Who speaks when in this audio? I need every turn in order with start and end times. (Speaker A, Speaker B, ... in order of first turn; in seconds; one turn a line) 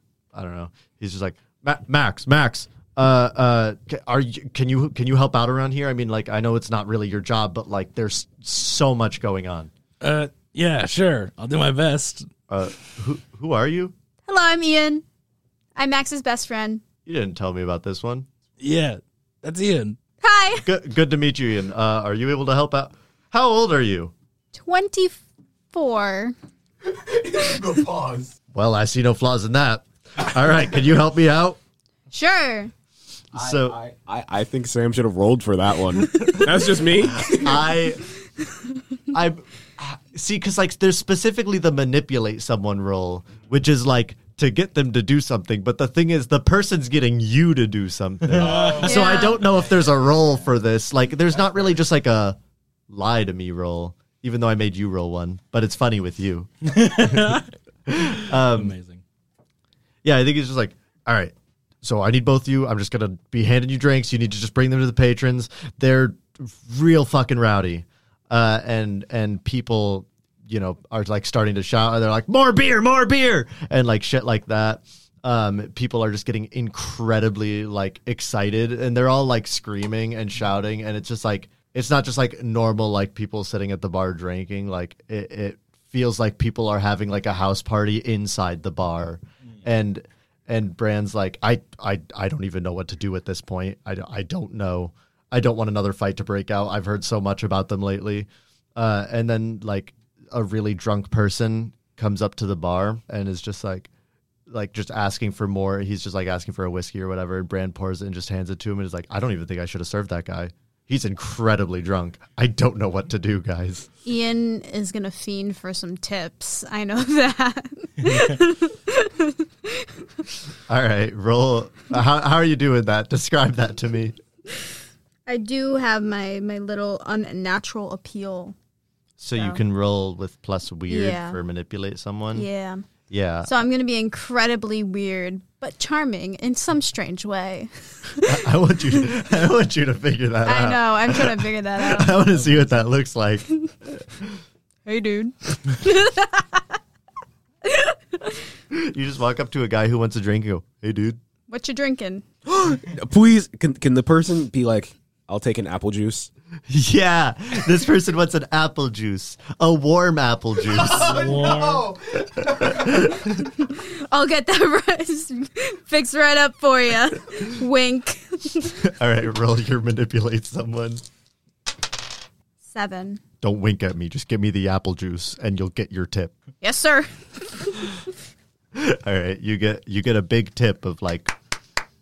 Speaker A: 0.3-9.7
Speaker B: 10.0-12.3
Speaker A: 12.5-13.9
Speaker C: 14.3-15.0
Speaker C: 15.8-16.8
Speaker A: 17.1-18.3
Speaker B: 18.6-19.9
Speaker C: 20.2-20.7
Speaker A: 20.6-24.1
Speaker C: 24.5-25.2
Speaker C: 25.7-26.3
Speaker D: 26.8-28.3
Speaker A: 28.5-31.6
Speaker C: 32.1-32.7
Speaker D: 33.3-37.6
Speaker A: 33.3-33.8
Speaker A: 37.1-38.0
Speaker A: 39.1-52.4
Speaker B: 48.2-48.9
Speaker D: 48.4-49.3
Speaker C: 48.8-49.4
Speaker A: 52.9-58.7
Speaker B: 56.7-57.5
Speaker B: 58.1-59.0
Speaker A: 60.0-103.9
Speaker A: 104.5-113.9
Speaker C: 114.0-120.0
Speaker B: 118.0-118.3
Speaker A: 120.7-124.2
Speaker C: 125.3-128.5
Speaker A: 129.2-132.5
Speaker C: 129.3-129.6
Speaker C: 130.9-131.4
Speaker C: 132.3-132.8
Speaker A: 133.1-133.5
Speaker C: 133.4-138.4
Speaker A: 138.2-143.9
Speaker C: 140.4-142.2
Speaker C: 144.8-146.8
Speaker C: 147.6-148.4
Speaker A: 148.7-151.2
Speaker C: 151.5-152.2
Speaker D: 152.4-156.3
Speaker A: 156.7-161.4
Speaker D: 160.7-162.8
Speaker B: 160.9-161.8
Speaker A: 162.3-163.5
Speaker C: 163.4-168.9
Speaker A: 168.8-171.0
Speaker C: 172.6-173.2
Speaker A: 173.4-176.3
Speaker C: 176.6-178.0
Speaker A: 178.7-181.3